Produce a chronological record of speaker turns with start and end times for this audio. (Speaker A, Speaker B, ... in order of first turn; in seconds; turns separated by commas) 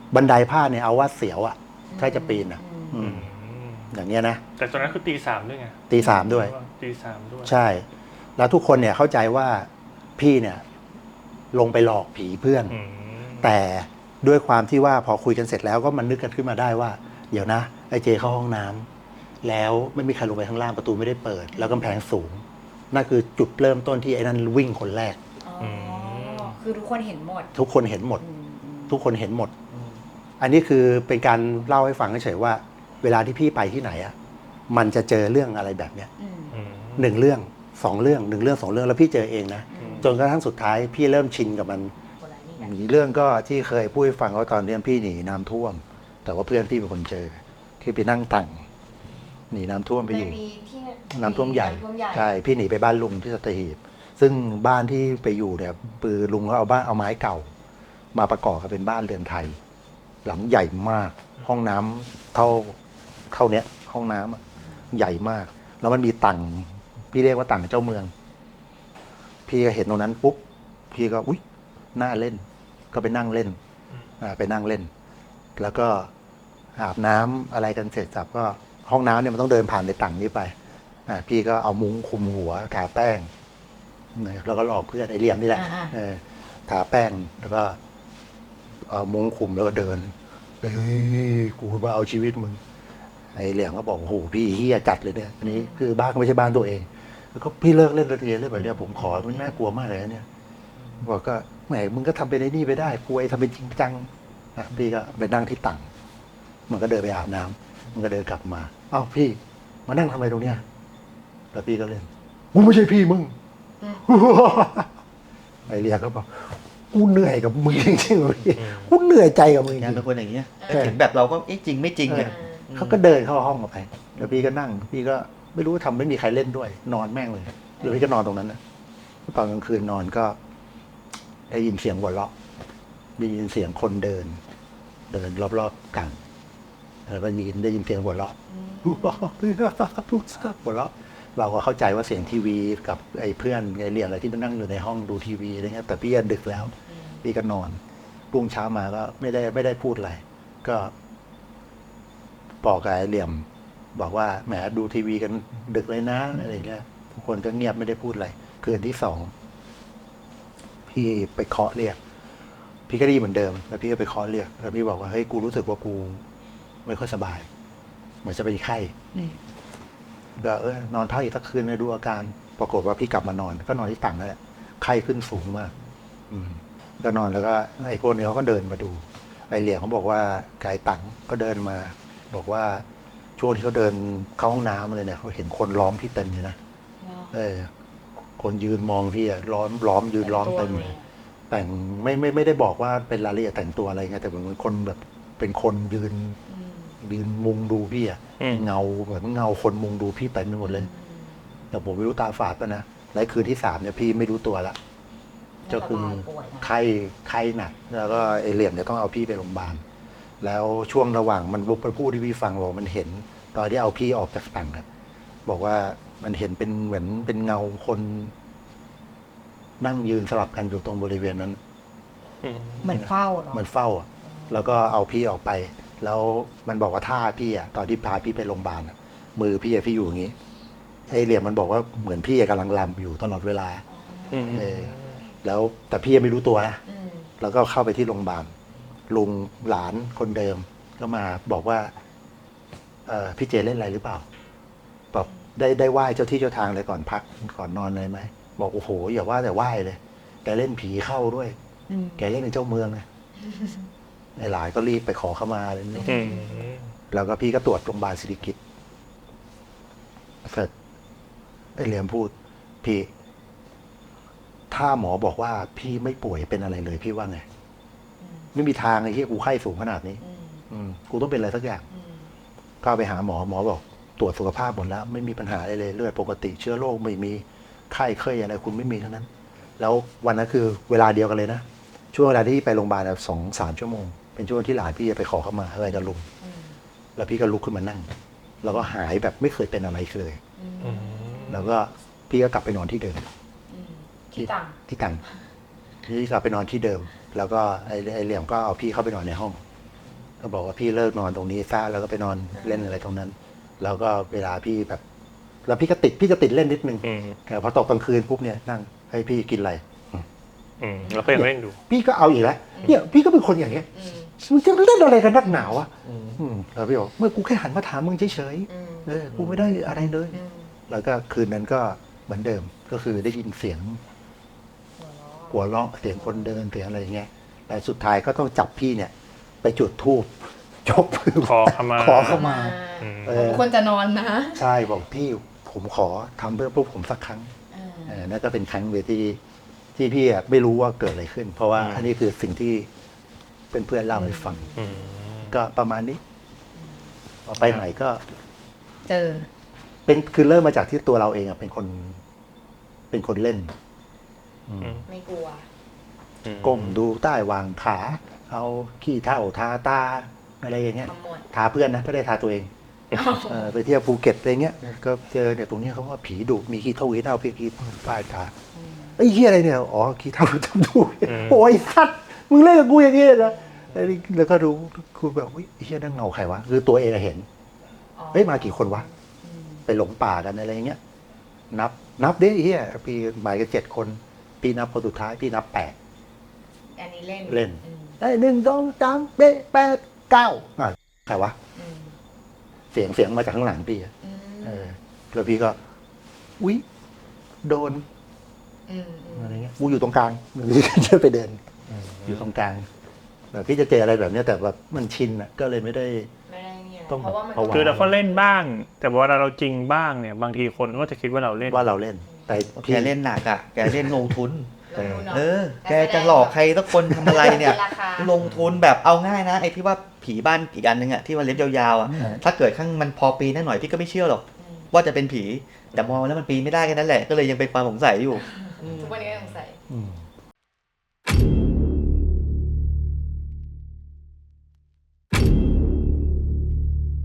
Speaker A: 0.1-3.3, Speaker B: 1.9-3.0, Speaker C: 3.0-3.9, Speaker A: 3.9-4.4, Speaker C: 4.6-7.5, Speaker A: 5.9-6.5, Speaker B: 6.0-6.2, Speaker A: 7.4-7.8, Speaker A: 8.4-10.6, Speaker A: 11.5-12.8, Speaker C: 12.7-13.5, Speaker A: 13.4-18.9, Speaker A: 19.4-25.2, Speaker B: 21.5-21.9, Speaker B: 25.4-27.5, Speaker C: 25.6-26.5, Speaker A: 27.5-28.2, Speaker B: 28.2-29.0, Speaker A: 28.9-29.5, Speaker D: 29.7-30.0, Speaker A: 30.4-34.1, Speaker A: 34.7-36.1, Speaker B: 36.2-36.5, Speaker C: 36.5-37.1, Speaker A: 37.0-41.9, Speaker B: 39.7-40.1, Speaker C: 39.8-40.1, Speaker B: 42.2-42.7, Speaker A: 42.6-48.6, Speaker A: 49.5-50.4, Speaker B: 50.0-52.3, Speaker A: 51.1-57.5, Speaker A: 58.1-59.6, Speaker A: 60.2-62.8, Speaker A: 63.3-68.1, Speaker A: 69.5-71.4, Speaker A: 71.9-73.6, Speaker A: 74.2-74.9, Speaker A: 75.6-76.1, Speaker A: 76.8-80.5, Speaker A: 81.1-83.3, Speaker A: 84.1-87.8, Speaker B: 85.5-85.9, Speaker A: 88.8-92.6, Speaker A: 93.3-100.2, Speaker B: 95.5-95.8, Speaker A: 101.0-105.9, Speaker A: 106.7-110.6, Speaker A: 111.5-113.3, Speaker A: 114.0-114.9, Speaker A: 115.7-120.0, Speaker D: 119.6-123.0, Speaker B: 120.6-120.9, Speaker A: 120.7-121.0, Speaker A: 122.1-128.6, Speaker B: 122.2-122.7, Speaker A: 129.3-130.4, Speaker A: 131.5-132.3, Speaker A: 133.2-134.4, Speaker A: 135.1-136.2, Speaker A: 137.1-147.8, Speaker B: 138.5-139.3, Speaker B: 146.9-147.2, Speaker A: 148.3-150.9, Speaker A: 152.6-159.3, Speaker A: 160.9-162.0, Speaker A: 162.9-166.2, Speaker A: 166.8-167.5, Speaker A: 168.2-168.9, Speaker A: 170.3-175.7, Speaker A: 176.3-182.8, Speaker A: 183.4-186.6, Speaker B: 187.0-187.3, Speaker A: 187.3-187.7, Speaker A: 188.4-191.0, Speaker B: 190.2-191.0, Speaker A: 191.5-196.4, Speaker B: 196.5-197.0, Speaker A: 197.0-200.9, Speaker C: 198.4-198.7, Speaker B: 200.6-201.4, Speaker A: 201.7-204.8, Speaker B: 205.6-206.7, Speaker A: 205.7-209.8, Speaker A: 210.4-214.8, Speaker A: 215.4-218.3, Speaker A: 219.8-221.6, Speaker C: 222.4-222.8, Speaker B: 222.8-223.6, Speaker A: 222.8-230.3, Speaker B: 224.3-224.7, Speaker A: 231.1-233.8, Speaker B: 233.9-234.8, Speaker C: 234.3-234.7, Speaker A: 234.4-236.8, Speaker B: 236.8-237.3, Speaker A: 237.4-238.5, Speaker A: 239.1-241.9, Speaker A: 243.1-244.2, Speaker A: 245.1-251.6, Speaker B: 251.9-252.2, Speaker A: 252.2-253.1, Speaker B: 253.4-253.8, Speaker A: 254.4-256.3, Speaker B: 256.0-256.7, Speaker C: 256.0-256.9, Speaker A: 257.1-258.6, Speaker A: 260.4-260.7, Speaker A: 261.8-263.1, Speaker A: 264.7-267.4, Speaker B: 268.2-268.5, Speaker A: 268.5-271.9, Speaker B: 270.2-270.6, Speaker B: 271.9-272.3, Speaker A: 272.8-286.3, Speaker B: 286.4-286.8, Speaker A: 287.1-288.1, Speaker A: 288.6-290.4, Speaker B: 290.6-291.7, Speaker C: 290.8-291.7, Speaker A: 291.5-293.3, Speaker B: 293.7-294.8, Speaker A: 294.4-295.2, Speaker A: 296.0-299.6, Speaker A: 300.4-305.0, Speaker B: 302.6-303.0, Speaker A: 305.6-310.2, Speaker C: 307.0-307.4, Speaker C: 310.8-311.8, Speaker A: 311.3-324.0, Speaker B: 312.8-313.0, Speaker B: 313.9-314.3, Speaker D: 316.0-316.4, Speaker B: 318.7-319.1, Speaker D: 319.3-319.7, Speaker B: 319.9-320.7, Speaker B: 325.0-326.6, Speaker A: 325.5-330.3, Speaker A: 330.8-333.8, Speaker C: 331.4-333.5, Speaker B: 332.2-334.6, Speaker A: 334.5-337.5, Speaker B: 337.7-338.2, Speaker A: 338.1-339.4, Speaker A: 339.9-342.9, Speaker C: 341.8-342.1, Speaker A: 343.7-344.7, Speaker B: 344.1-345.1, Speaker C: 344.8-345.5, Speaker A: 345.5-346.2, Speaker A: 347.4-348.2, Speaker B: 349.1-349.5, Speaker A: 350.1-352.2, Speaker A: 353.1-353.7, Speaker A: 354.7-355.0, Speaker C: 354.8-355.1, Speaker B: 355.1-355.6, Speaker C: 356.4-357.0, Speaker A: 356.6-362.7, Speaker B: 361.0-361.4, Speaker B: 363.1-363.7, Speaker A: 363.3-368.5, Speaker B: 368.8-369.1, Speaker A: 369.2-377.5, Speaker C: 371.2-371.6, Speaker B: 378.2-379.8, Speaker A: 378.3-379.1, Speaker A: 379.9-381.0, Speaker A: 381.7-385.9, Speaker B: 386.9-388.2, Speaker A: 387.4-391.6, Speaker B: 391.8-392.1, Speaker A: 392.9-395.8, Speaker B: 394.2-394.9, Speaker A: 397.6-398.0, Speaker B: 398.9-399.6, Speaker A: 399.3-401.6, Speaker C: 401.9-402.3, Speaker A: 402.2-402.9, Speaker A: 403.5-406.3, Speaker B: 406.4-408.4, Speaker A: 407.1-408.1, Speaker C: 407.7-411.9, Speaker A: 411.6-413.1, Speaker D: 412.7-429.6, Speaker A: 413.8-414.1, Speaker B: 414.9-416.6, Speaker A: 414.9-415.4, Speaker B: 417.2-418.3, Speaker C: 418.4-418.8, Speaker A: 422.1-422.4, Speaker B: 424.6-424.9, Speaker B: 428.7-429.8, Speaker A: 429.9-430.2